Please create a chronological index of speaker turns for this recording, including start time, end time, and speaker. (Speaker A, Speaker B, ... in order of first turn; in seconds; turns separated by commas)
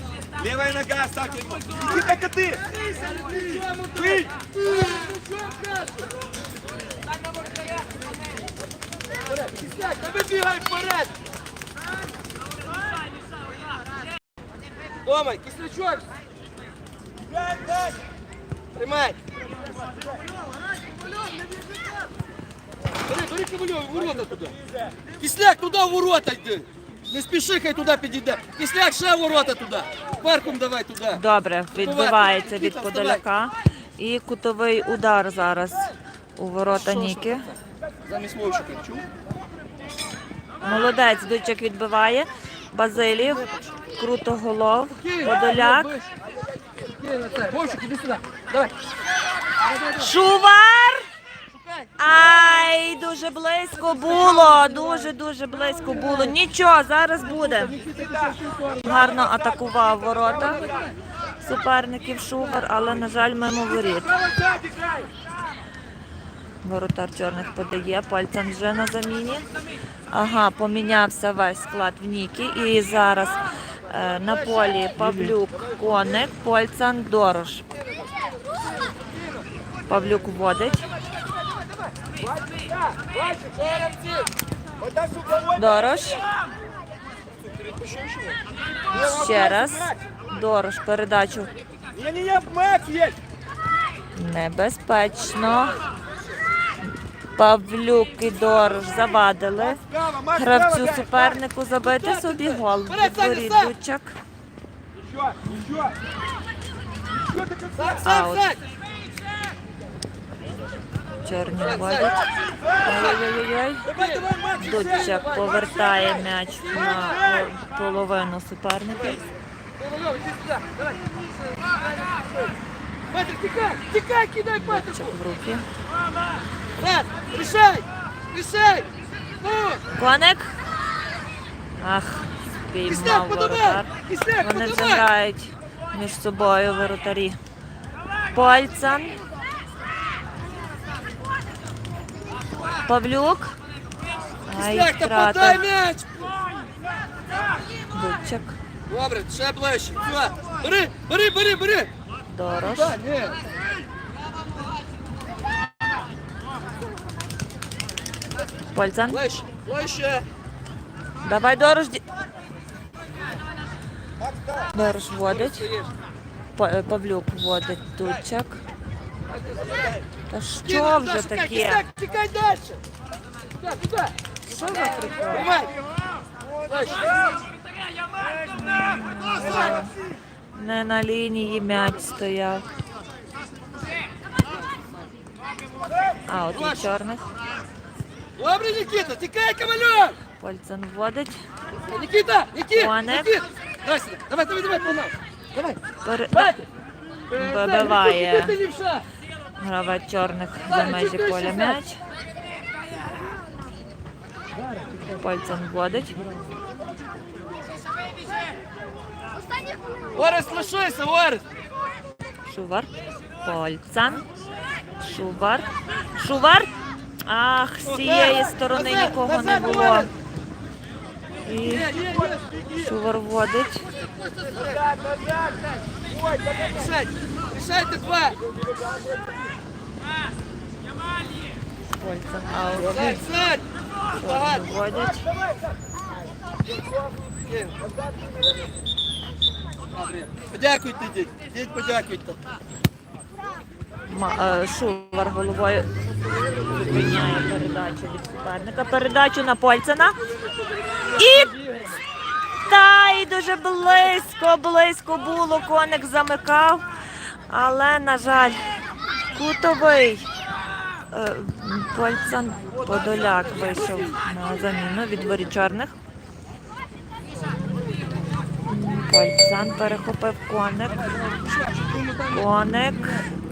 Speaker A: 0.4-2.6, Speaker B: 2.6-6.0, Speaker A: 4.0-4.3, Speaker B: 9.2-11.1, Speaker B: 15.0-16.1, Speaker B: 18.8-19.2, Speaker B: 23.1-24.6, Speaker B: 25.2-31.2, Speaker C: 31.1-37.5, Speaker B: 31.8-33.2, Speaker B: 36.7-39.1, Speaker C: 40.6-45.9, Speaker B: 44.9-46.1, Speaker B: 47.0-48.7, Speaker B: 49.6-50.1, Speaker C: 50.0-51.1, Speaker B: 51.5-51.9, Speaker C: 52.0-57.8, Speaker B: 54.0-55.1, Speaker B: 57.2-59.1, Speaker C: 58.8-60.6, Speaker B: 60.4-61.0, Speaker C: 61.4-64.1, Speaker B: 64.0-65.0, Speaker C: 66.6-69.5, Speaker C: 70.1-77.7, Speaker B: 75.0-75.3, Speaker C: 79.9-80.9, Speaker B: 82.6-84.3, Speaker A: 84.9-85.5, Speaker C: 85.5-86.2, Speaker B: 87.5-88.4, Speaker C: 88.9-91.5, Speaker A: 91.9-93.1, Speaker C: 94.1-95.8, Speaker C: 97.4-104.2, Speaker A: 99.9-101.1, Speaker B: 101.8-103.7, Speaker A: 107.3-107.6, Speaker B: 107.7-108.6, Speaker C: 108.0-108.5, Speaker C: 111.2-112.2, Speaker B: 111.6-112.2, Speaker C: 112.8-114.0, Speaker B: 112.8-113.2, Speaker B: 113.8-116.1, Speaker C: 114.6-119.2, Speaker B: 119.8-122.5, Speaker B: 123.1-125.2, Speaker C: 124.5-125.7, Speaker B: 126.8-128.9, Speaker B: 129.4-129.8, Speaker C: 130.0-130.5, Speaker C: 131.8-137.4, Speaker B: 132.9-135.1, Speaker C: 138.3-139.2, Speaker C: 142.8-143.5, Speaker C: 144.5-145.6, Speaker B: 144.5-146.3, Speaker C: 147.9-148.6, Speaker B: 148.9-151.9, Speaker C: 152.3-153.0, Speaker B: 152.6-153.4, Speaker C: 158.7-159.2, Speaker B: 159.1-160.2, Speaker C: 161.2-162.0, Speaker C: 164.7-165.7, Speaker B: 165.3-165.9, Speaker C: 166.5-168.6, Speaker B: 169.3-170.0, Speaker C: 170.3-171.8, Speaker B: 170.6-172.8, Speaker B: 173.6-174.1, Speaker C: 174.4-175.5, Speaker B: 175.1-175.7, Speaker B: 176.7-177.2, Speaker C: 178.5-179.9, Speaker C: 180.5-182.7, Speaker C: 186.3-187.2, Speaker B: 186.5-186.9, Speaker B: 188.4-190.2, Speaker C: 190.4-191.4, Speaker B: 191.9-195.8, Speaker C: 192.7-193.4, Speaker C: 196.0-196.5, Speaker B: 196.3-196.7, Speaker B: 197.3-199.0, Speaker C: 197.3-198.6, Speaker C: 199.6-202.0, Speaker B: 200.7-201.8, Speaker B: 204.6-205.0, Speaker C: 205.1-206.2, Speaker B: 210.1-211.4, Speaker C: 212.5-214.2, Speaker C: 215.0-216.7, Speaker C: 217.2-220.1, Speaker B: 217.8-220.1, Speaker C: 221.5-221.9, Speaker B: 221.6-222.6, Speaker C: 222.8-223.9, Speaker B: 224.2-224.9, Speaker B: 226.6-228.4, Speaker C: 231.9-233.2, Speaker B: 232.7-234.7, Speaker C: 234.2-235.3, Speaker B: 237.5-237.8, Speaker B: 239.9-242.4, Speaker C: 244.1-245.9, Speaker C: 246.7-250.2, Speaker B: 250.5-252.0, Speaker C: 251.1-251.5, Speaker C: 252.7-256.9, Speaker C: 257.5-258.6, Speaker C: 259.3-260.3, Speaker C: 261.1-265.9, Speaker B: 262.7-264.1, Speaker C: 268.6-271.2, Speaker B: 271.2-272.4, Speaker C: 272.3-273.2